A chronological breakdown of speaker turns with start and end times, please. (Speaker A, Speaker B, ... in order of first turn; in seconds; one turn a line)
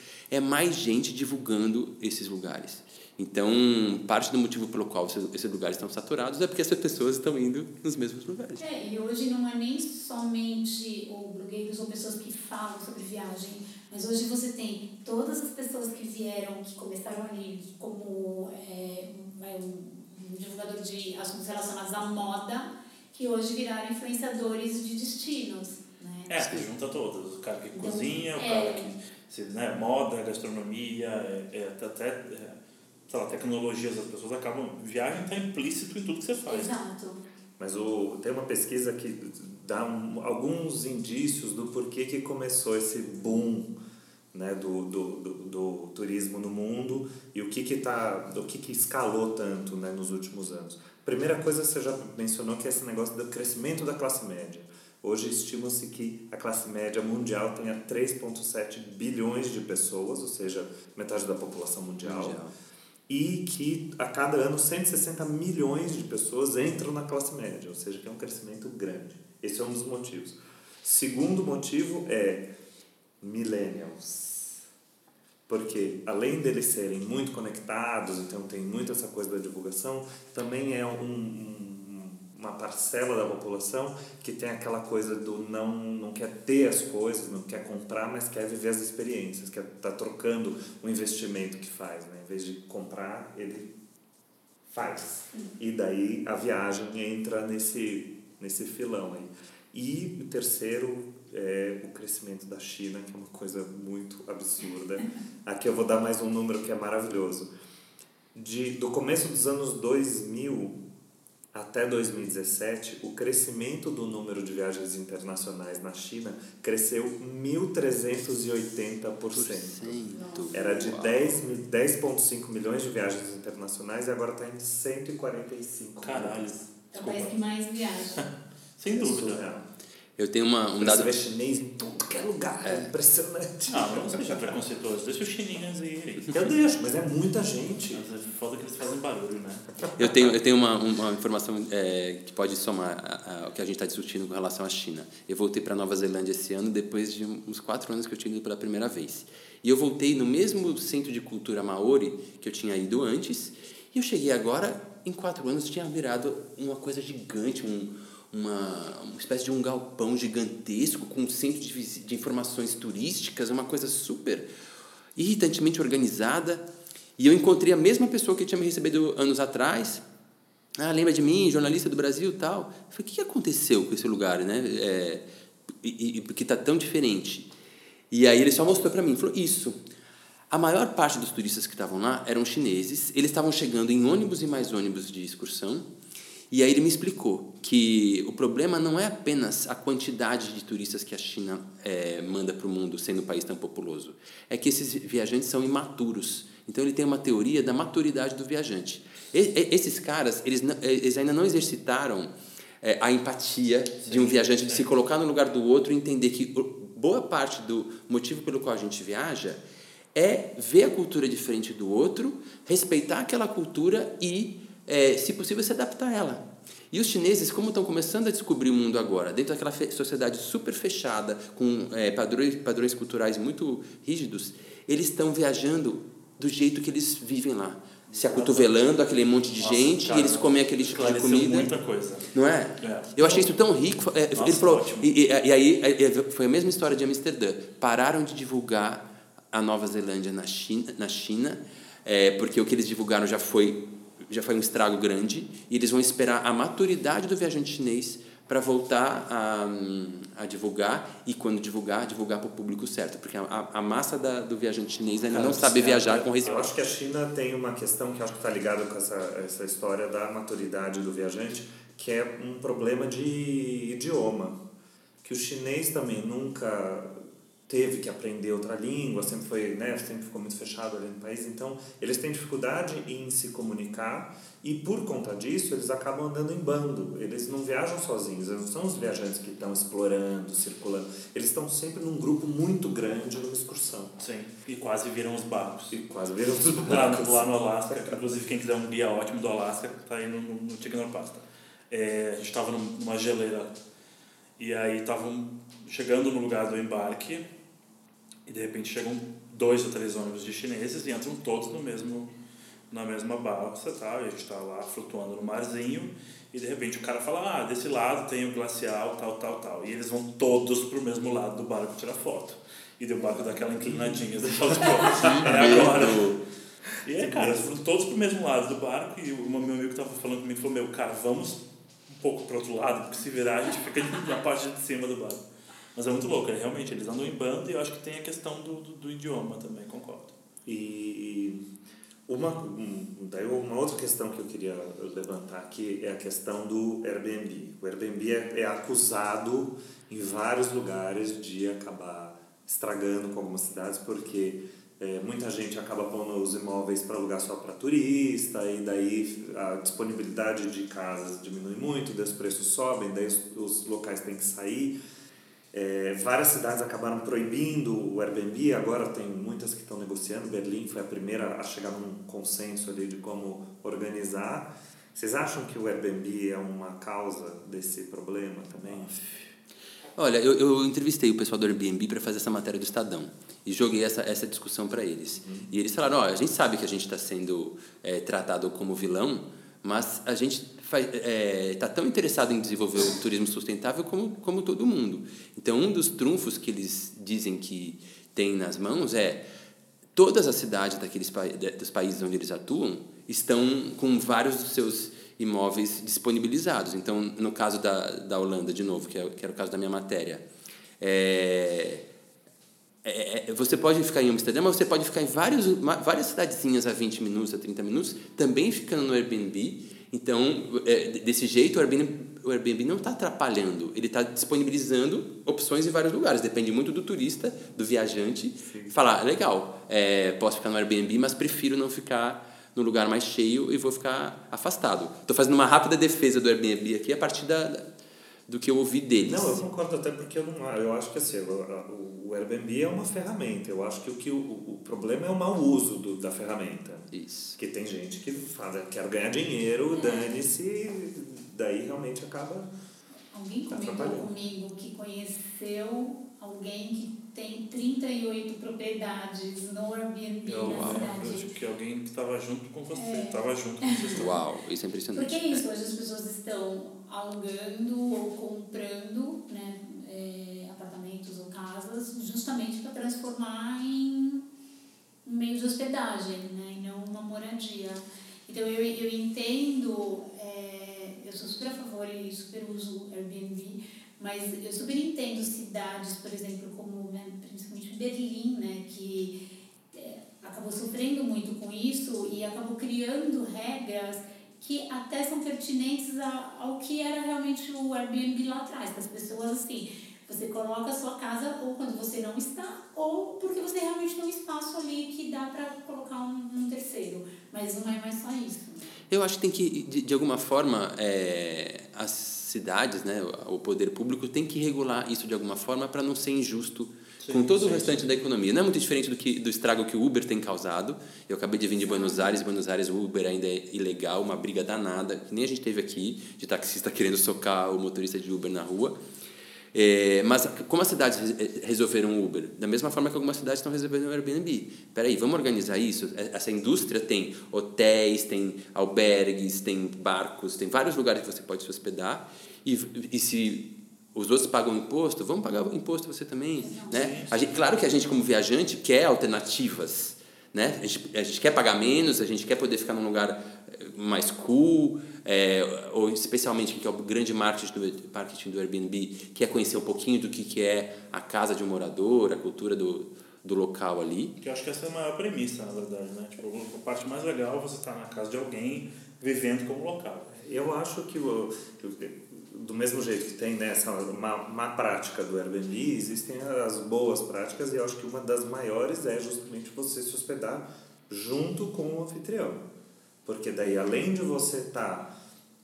Speaker A: 0.3-8.6
Speaker B: 8.6-26.4
Speaker C: 26.3-32.6
Speaker B: 27.7-28.9
Speaker C: 33.1-36.7
Speaker B: 36.5-37.2
Speaker D: 37.6-43.7
Speaker D: 44.3-62.4
Speaker A: 62.0-62.5
Speaker D: 63.1-72.5
Speaker D: 73.2-74.6
Speaker D: 75.5-93.7
Speaker D: 94.7-107.5
Speaker D: 108.3-110.8
Speaker D: 111.5-120.0
Speaker A: 119.3-121.4
Speaker B: 120.1-120.7
Speaker D: 120.5-126.5
Speaker C: 126.0-127.3
Speaker B: 126.9-128.3
Speaker C: 128.2-129.4
Speaker D: 128.8-129.7
Speaker A: 130.2-131.2
Speaker D: 130.8-134.6
Speaker A: 132.6-132.9
Speaker C: 133.7-136.3
Speaker D: 136.3-138.0
Speaker C: 137.9-139.9
Speaker A: 140.0-164.5
Speaker A: 165.2-166.7
Speaker A: 167.2-170.0
Speaker A: 170.8-175.2
Speaker A: 175.8-177.5
Speaker A: 178.1-179.8
Speaker A: 180.5-185.9
Speaker A: 186.5-202.3
Speaker A: 202.8-209.6
Speaker C: 204.0-204.9
Speaker A: 210.2-231.7
Speaker C: 228.1-228.7
Speaker C: 229.6-233.5
Speaker A: 232.3-256.7
Speaker C: 234.3-235.1
Speaker D: 255.3-264.6
Speaker D: 265.2-267.1
Speaker D: 267.7-284.2
Speaker C: 284.2-286.0
Speaker D: 285.9-288.3
Speaker C: 286.9-293.8
Speaker C: 294.6-297.4
Speaker C: 298.5-302.3
Speaker C: 302.9-316.4
Speaker D: 313.8-314.1
Speaker A: 315.2-316.4
Speaker C: 317.0-325.4
Speaker D: 317.2-317.8
Speaker C: 325.9-330.3
Speaker D: 330.7-331.6
Speaker D: 332.3-355.0
Speaker D: 355.7-369.2
Speaker C: 368.9-369.2
Speaker A: 370.2-389.4
Speaker D: 375.4-375.7
Speaker A: 390.1-400.4
Speaker A: 401.0-402.0
Speaker A: 403.0-427.9
Speaker D: 418.7-418.9
Speaker A: 428.5-429.6
Speaker D: 429.2-442.7
Speaker A: 437.1-437.6
Speaker B: 439.9-440.3
Speaker B: 443.3-451.5
Speaker D: 443.7-444.3
Speaker C: 450.5-454.3
Speaker A: 450.6-451.2
Speaker B: 452.9-454.3
Speaker A: 454.1-455.6
Speaker B: 455.1-464.4
Speaker B: 465.2-479.4
Speaker B: 479.9-498.9
Speaker A: 499.1-519.0
Speaker C: 507.2-508.1
Speaker B: 511.8-512.4
Speaker A: 519.7-554.4
Speaker B: 536.6-537.0
Speaker C: 536.9-537.4
Speaker C: 554.4-560.3
Speaker D: 560.3-572.6
Speaker D: 573.2-575.1